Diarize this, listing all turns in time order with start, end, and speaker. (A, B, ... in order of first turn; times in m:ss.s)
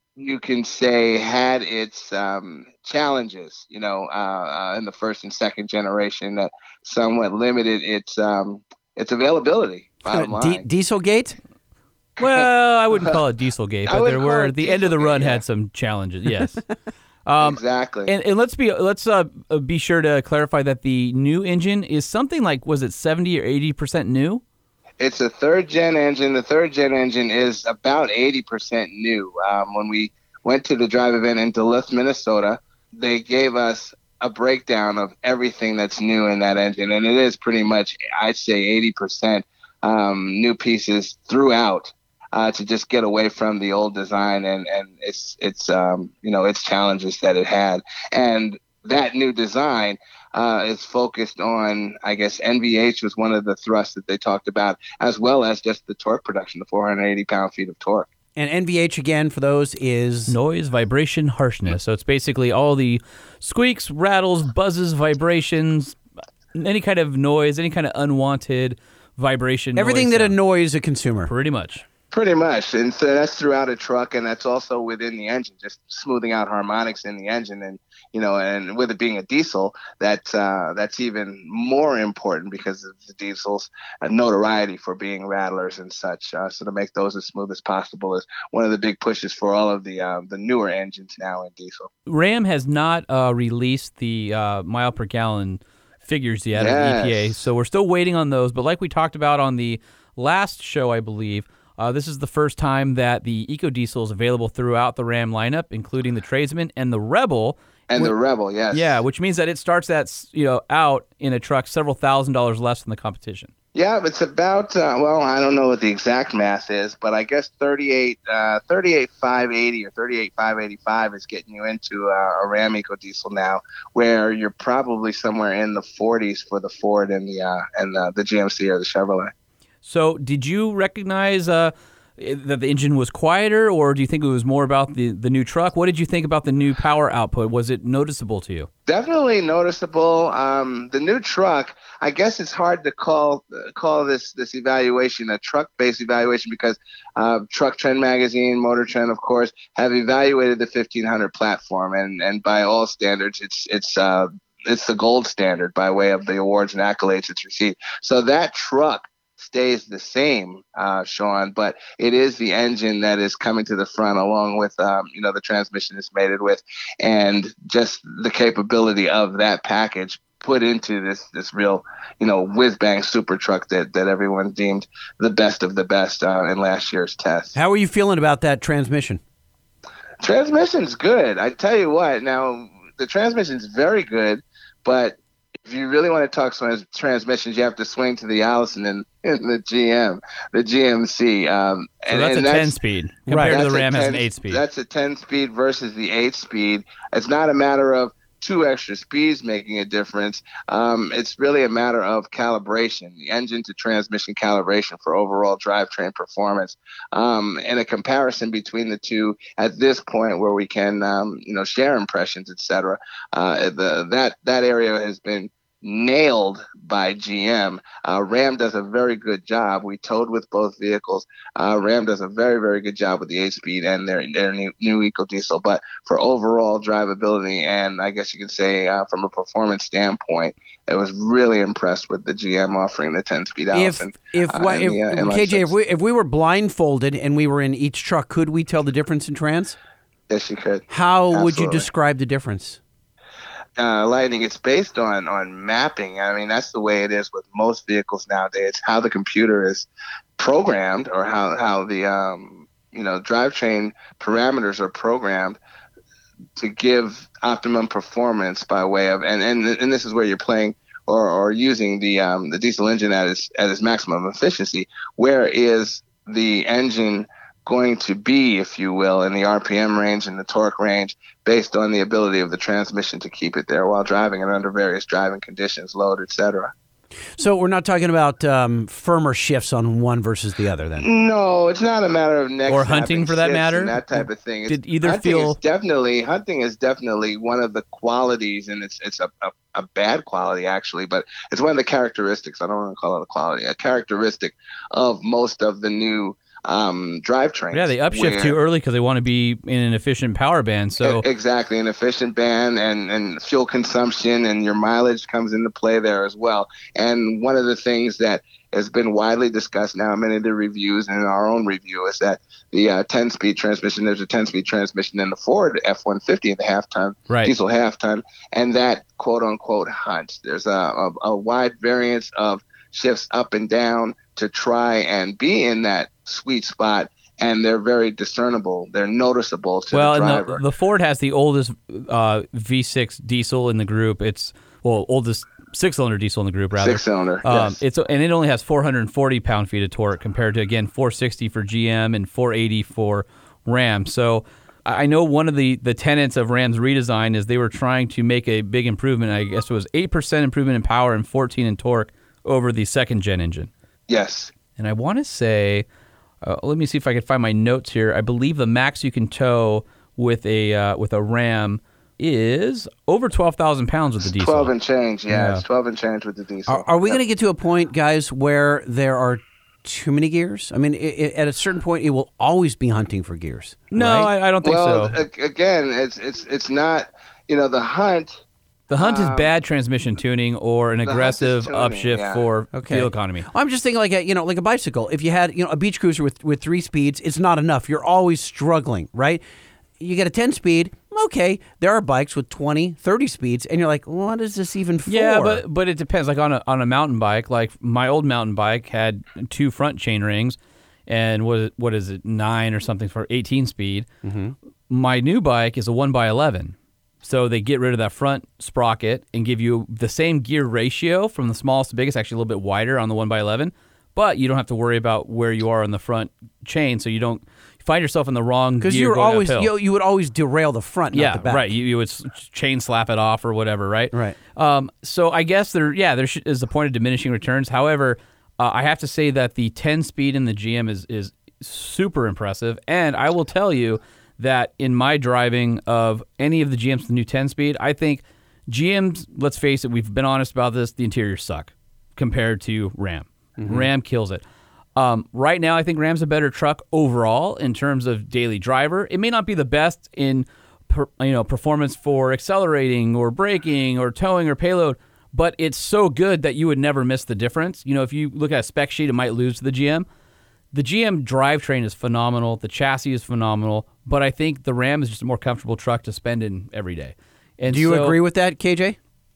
0:00.2-0:10.7 A
0:10.1-0:11.4 B
0:12.2-0:16.6 C
0:13.9-0:15.4 A
0:17.3-0:24.4 C
0:17.4-0:18.1 A
0:25.0-0:58.1 A
0:58.4-1:00.4 B
1:00.3-1:06.0 C
1:06.6-1:10.4 C
1:09.8-1:11.3 B
1:11.3-1:11.8 C
1:12.1-1:31.9 A
1:32.1-1:48.1 C
1:36.6-1:37.4 A
1:47.9-1:49.0 A
1:48.7-1:53.5 C
1:53.8-2:09.3 A
2:09.8-2:18.7 C
2:18.9-2:57.6 A
2:57.6-2:59.2 B
3:00.2-3:12.8 A
3:12.1-3:14.6 C
3:13.3-3:13.6 B
3:13.5-3:55.7 A
3:53.7-3:59.8 B
4:00.3-4:01.9 A
4:00.9-4:02.8 B
4:03.8-4:09.9 A
4:10.4-4:15.6 A
4:16.6-4:36.7 A
4:37.4-4:41.1 B
4:41.0-4:58.6 A
4:42.7-4:45.6 C
4:57.7-5:01.2 C
5:01.0-5:30.6 A
5:29.9-5:53.7 C
5:36.8-5:37.8 A
5:54.1-5:54.5 A
5:54.8-5:55.9 C
5:56.4-6:04.7 C
6:04.4-6:07.2 A
6:05.3-6:05.6 C
6:06.7-6:14.3 B
6:13.9-6:15.2 C
6:14.6-6:18.4 A
6:18.9-6:23.5 C
6:19.0-6:19.5 A
6:21.0-6:22.4 A
6:22.7-6:29.4 B
6:30.0-6:35.6 B
6:35.1-6:44.1 C
6:44.2-6:44.6 B
6:44.9-6:59.7 C
6:58.8-7:01.7 B
7:01.1-7:24.4 C
7:04.1-7:04.4 B
7:23.6-7:23.9 B
7:25.0-7:40.1 C
7:40.7-7:48.2 C
7:47.7-7:49.0 B